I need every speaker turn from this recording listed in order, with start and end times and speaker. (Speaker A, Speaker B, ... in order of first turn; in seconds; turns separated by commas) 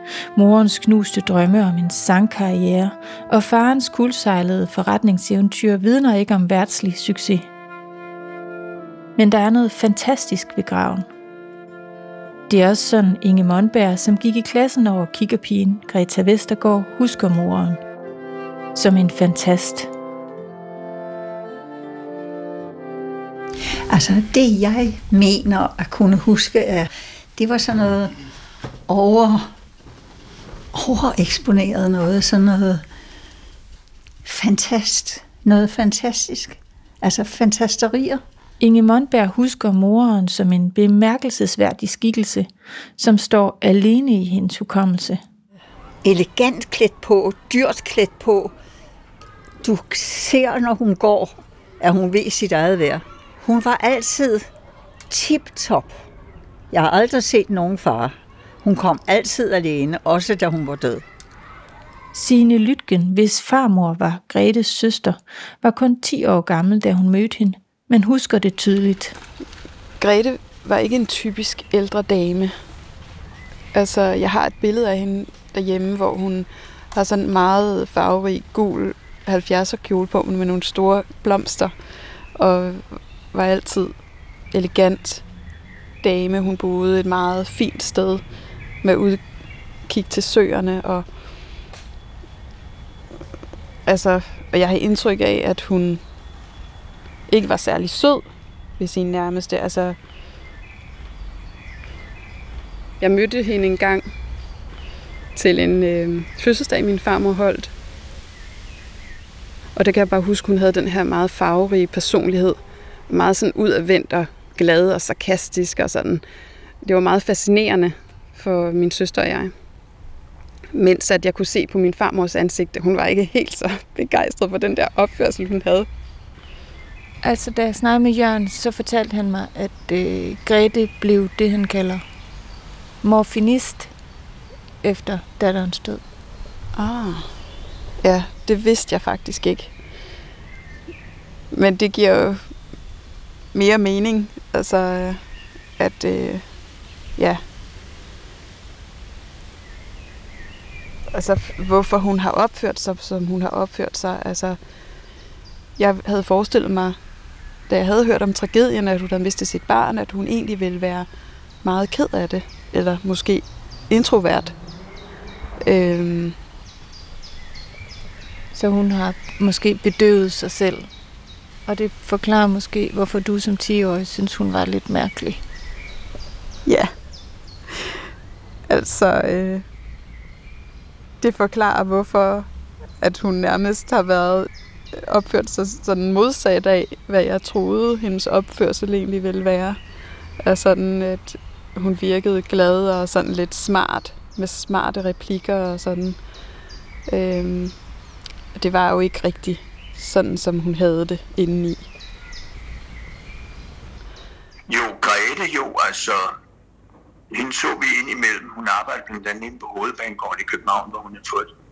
Speaker A: 0.3-7.5, Speaker A: 9.2-11.1, Speaker A: 12.5-17.8, Speaker A: 18.8-19.9, Speaker B: 23.9-28.1, Speaker B: 28.9-29.5, Speaker B: 30.7-32.9, Speaker B: 34.2-38.2, Speaker A: 38.6-45.2, Speaker B: 46.0-48.5, Speaker B: 49.6-54.5, Speaker B: 55.1-56.0, Speaker B: 56.7-61.0, Speaker A: 62.1-69.2, Speaker C: 70.0-72.6, Speaker C: 73.7-81.7, Speaker C: 82.3-83.9, Speaker C: 84.5-85.3, Speaker C: 86.0-88.2, Speaker C: 88.8-89.3, Speaker C: 89.8-91.2, Speaker C: 93.9-96.0, Speaker C: 97.3-100.0, Speaker C: 103.0-104.1, Speaker C: 105.3-107.7, Speaker C: 109.8-116.2, Speaker C: 116.8-119.5, Speaker C: 120.7-125.9, Speaker A: 127.2-132.1, Speaker A: 133.0-133.9, Speaker A: 134.8-136.0, Speaker C: 136.8-137.3, Speaker C: 138.0-139.8, Speaker C: 141.5-142.6, Speaker C: 143.5-145.3, Speaker C: 145.8-146.6, Speaker C: 147.2-147.4, Speaker C: 151.1-154.6, Speaker C: 155.8-157.0, Speaker C: 157.7-161.1, Speaker C: 161.6-164.6, Speaker C: 165.7-166.4, Speaker A: 168.5-170.9, Speaker A: 171.7-175.4, Speaker C: 176.7-176.9, Speaker C: 177.7-178.0, Speaker C: 178.7-179.6, Speaker C: 181.2-182.5, Speaker C: 183.0-189.8, Speaker C: 190.4-196.2, Speaker C: 197.1-197.8, Speaker C: 198.6-201.8, Speaker D: 204.7-206.3, Speaker D: 207.3-211.5